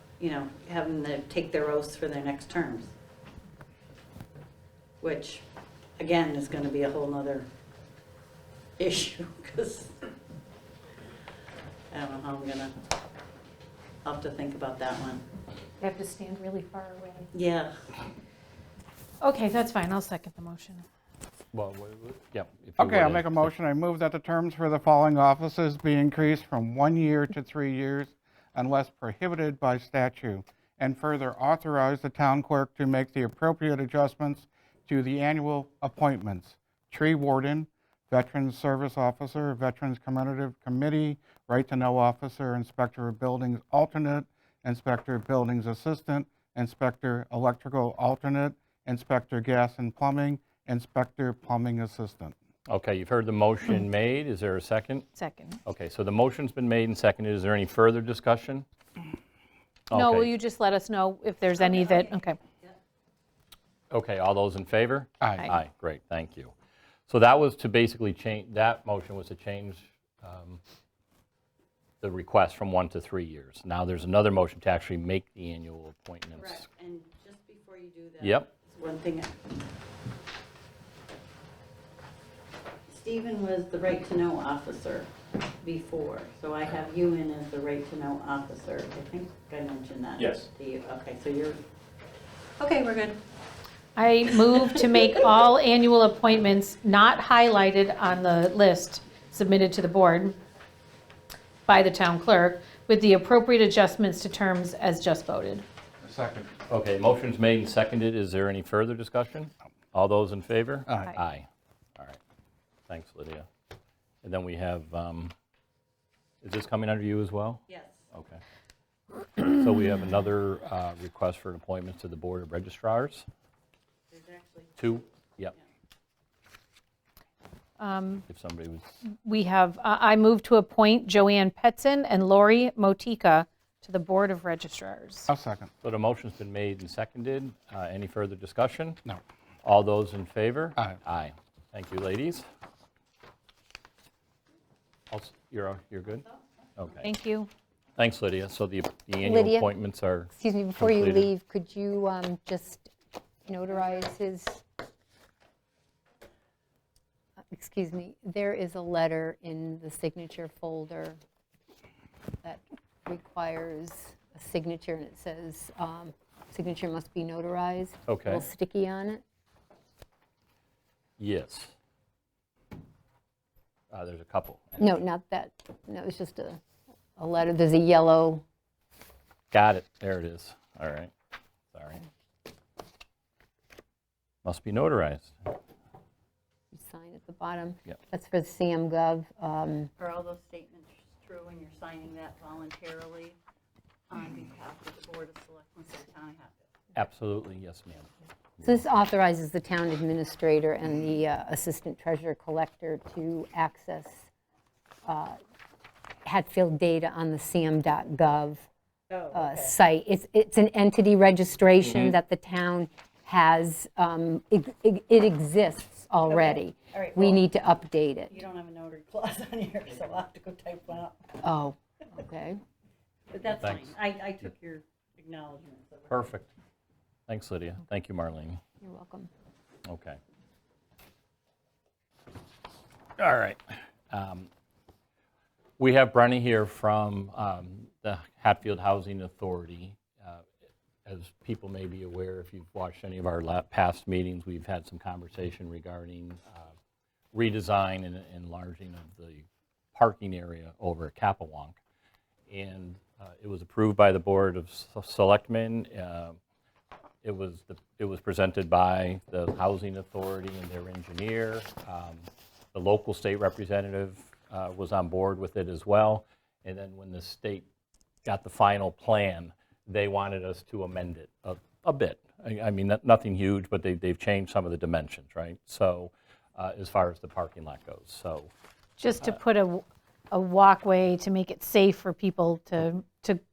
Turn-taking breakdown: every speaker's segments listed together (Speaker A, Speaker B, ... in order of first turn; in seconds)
Speaker A: 0.2-2.9, 5.0-5.4, 6.0-7.5, 8.8-10.0, 11.9-12.8, 14.0-15.2, 17.3-17.8, 61.6-62.8, 76.3-79.3, 82.9-85.1, 85.6-91.6, 92.6-93.2, 117.7-118.0, 124.1-125.0, 190.0-193.4, 194.1-196.7, 209.1-209.7, 216.2-217.4, 218.3-221.3, 223.3-226.3
Speaker B: 15.8-17.3, 19.2-20.8, 55.2-55.6, 59.9-62.4, 94.0-100.4, 101.7-105.6, 127.8-128.2, 129.2-135.3, 147.0-147.5, 279.0-283.4
Speaker C: 21.5-23.5, 52.7-55.1, 55.6-58.6, 59.9-60.3, 63.9-66.5, 67.1-70.6, 72.0-76.6, 78.2-78.5, 90.2-90.5, 106.7-112.2, 112.9-113.5, 114.2-115.3, 116.4-118.4, 119.4-123.2, 124.8-125.5, 128.3-128.9, 135.8-139.0, 139.6-142.4, 145.1-146.2, 146.8-147.1, 148.0-151.3, 168.1-168.5, 171.2-171.7, 173.9-174.8, 179.5-181.1, 181.7-182.1, 184.4-185.6, 196.9-198.7, 223.6-223.9, 226.1-226.5, 227.3-228.6, 229.8-230.2, 233.2-234.5, 235.8-240.4, 241.0-246.7, 247.3-251.8, 252.5-256.4, 257.2-267.7, 268.2-278.5
Speaker D: 22.8-52.3, 65.2-65.5, 106.0-106.5, 110.9-111.1, 135.3-135.7
Speaker E: 149.2-149.7, 150.3-152.9, 153.4-154.6, 157.5-161.2, 162.4-169.2, 174.8-176.6, 177.2-178.4, 186.7-189.9, 198.6-204.2, 205.1-205.4, 206.2-208.7, 209.3-218.3, 221.4-222.6, 228.8-229.3